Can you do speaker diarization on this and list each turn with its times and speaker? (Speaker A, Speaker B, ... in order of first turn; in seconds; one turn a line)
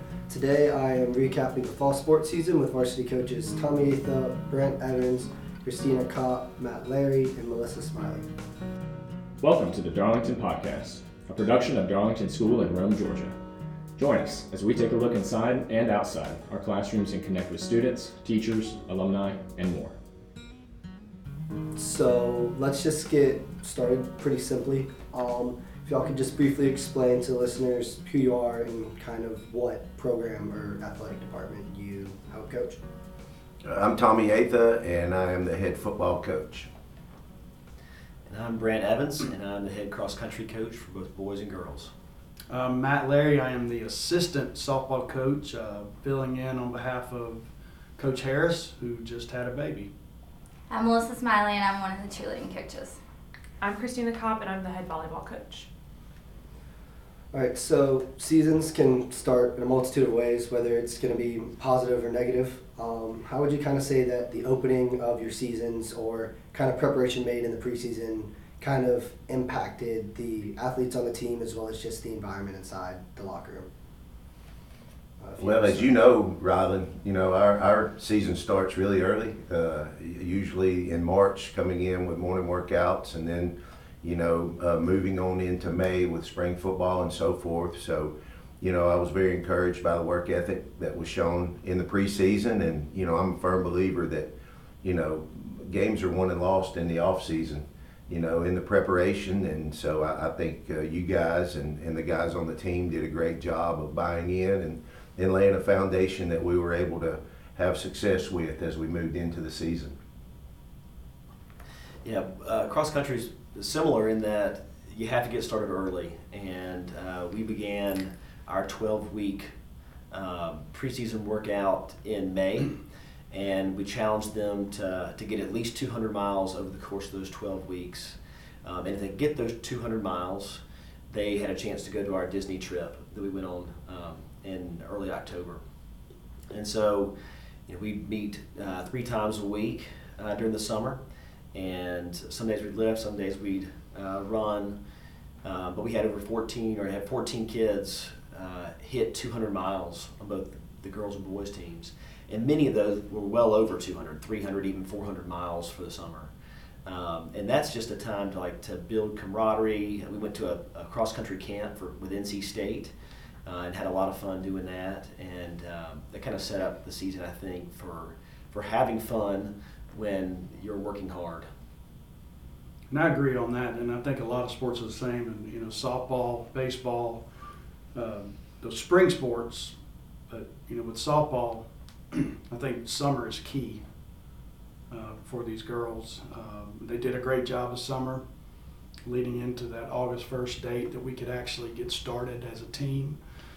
Speaker A: 0.3-8.3
Speaker B: 9.4-13.4
Speaker B: 14.0-19.9
Speaker A: 21.8-32.8
Speaker C: 33.6-36.7
Speaker D: 38.3-41.9
Speaker E: 42.5-49.9
Speaker F: 50.7-53.0
Speaker G: 53.6-55.7
Speaker A: 57.3-73.7
Speaker A: 75.2-75.9
Speaker C: 75.4-94.3
Speaker C: 94.8-110.0
Speaker D: 112.0-119.5
Speaker D: 120.1-122.8
Speaker D: 123.3-135.6
Speaker D: 136.5-137.1
Speaker D: 137.7-141.0
Speaker D: 141.5-144.8
Speaker D: 145.4-156.3
Speaker D: 156.8-162.9
Speaker D: 163.4-171.5
Speaker E: 172.9-177.2
Speaker E: 177.9-179.8
Speaker E: 180.3-183.8
Speaker E: 184.9-188.2
Speaker E: 189.0-193.2